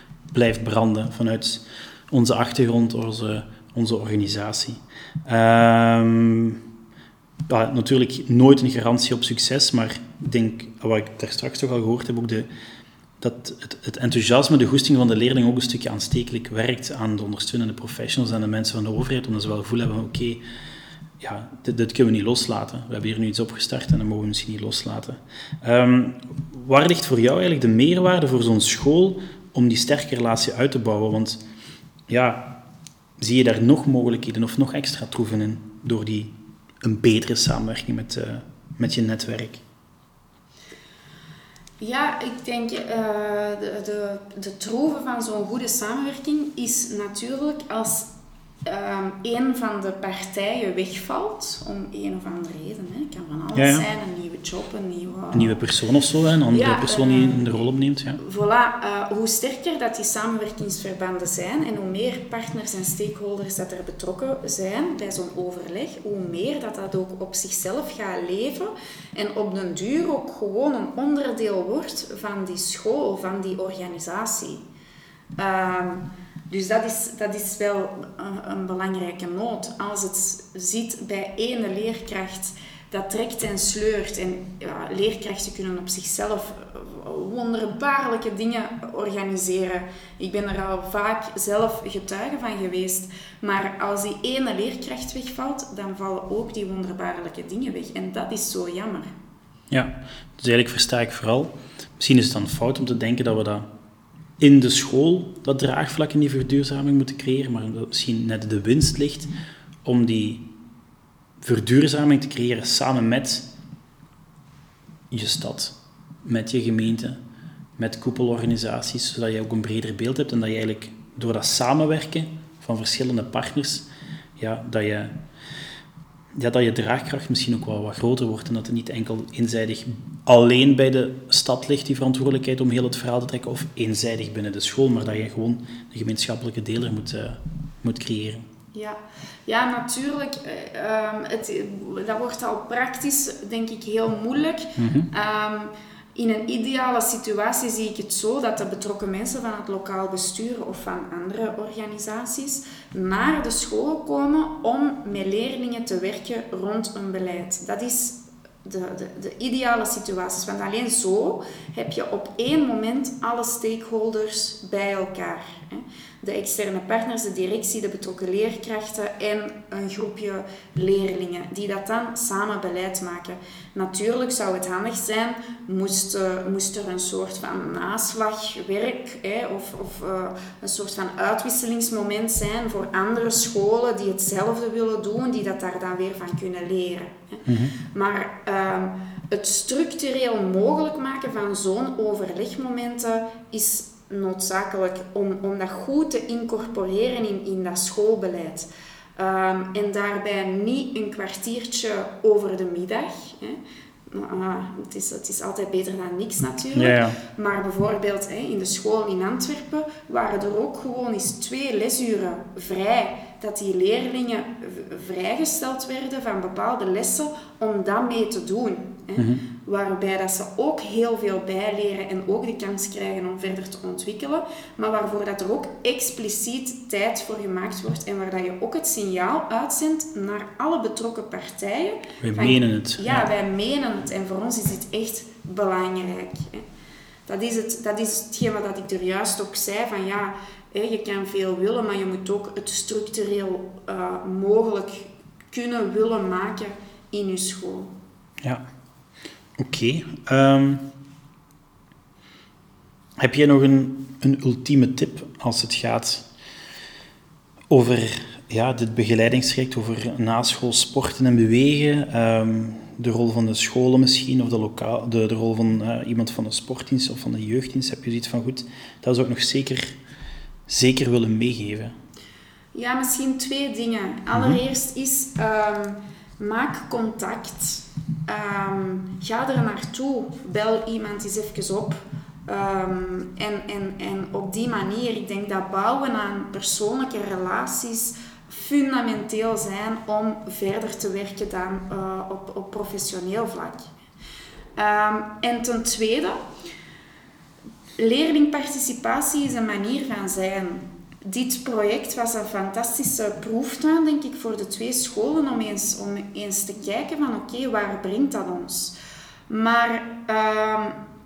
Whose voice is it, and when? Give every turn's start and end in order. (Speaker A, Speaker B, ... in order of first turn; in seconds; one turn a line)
Speaker A: 0.3-6.6
Speaker A: 7.5-12.5
Speaker A: 13.2-20.4
Speaker A: 21.2-31.4
Speaker A: 32.1-32.5
Speaker A: 33.2-39.6
Speaker B: 41.8-48.1
Speaker B: 48.6-55.6
Speaker A: 53.5-53.9
Speaker A: 55.3-58.2
Speaker B: 56.5-57.5
Speaker B: 58.2-74.6
Speaker B: 75.4-99.1
Speaker A: 99.7-103.7
Speaker A: 104.4-109.3
Speaker A: 109.8-110.4
Speaker A: 111.4-113.5
Speaker A: 115.1-117.2
Speaker A: 117.8-125.1
Speaker A: 126.3-138.5
Speaker B: 138.7-236.6
Speaker A: 144.8-145.1
Speaker A: 187.4-187.7
Speaker A: 206.7-207.2
Speaker A: 219.2-219.4
Speaker A: 232.2-233.3
Speaker B: 237.3-247.9
Speaker A: 249.6-250.8
Speaker A: 253.2-256.2
Speaker A: 257.7-270.0
Speaker A: 270.7-271.9
Speaker B: 272.7-293.9
Speaker A: 274.3-274.6
Speaker B: 294.8-296.4
Speaker B: 298.0-308.9
Speaker B: 309.5-311.0